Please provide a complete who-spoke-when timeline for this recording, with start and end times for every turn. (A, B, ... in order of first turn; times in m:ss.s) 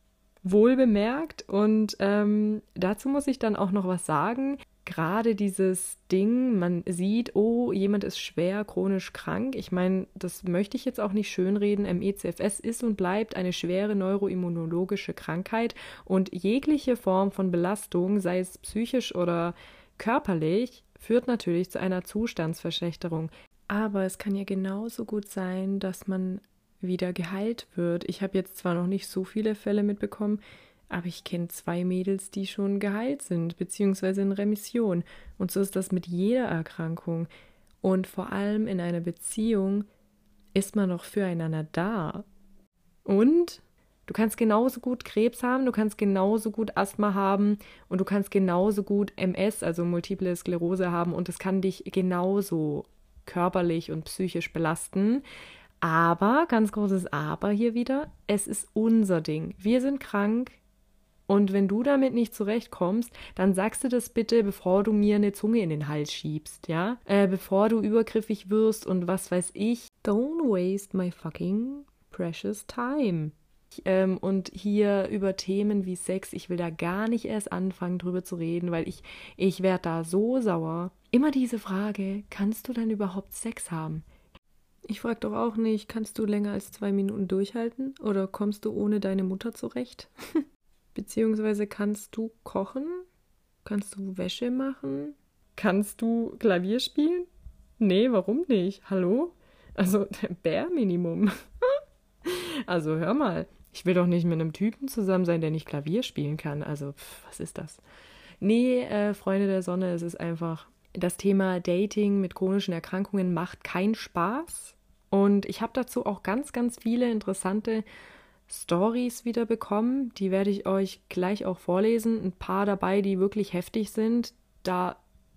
0:00.4-0:37.3 A
0:37.8-0:39.8 A
0:40.5-0:42.2 A
0:43.0-0:55.2 A
0:55.8-1:00.6 A
1:01.3-1:24.0 A
1:24.9-1:30.4 A
1:30.9-1:33.0 A
1:33.6-1:37.3 A
1:37.8-1:47.8 A
1:48.4-1:57.8 A
1:58.5-2:05.0 A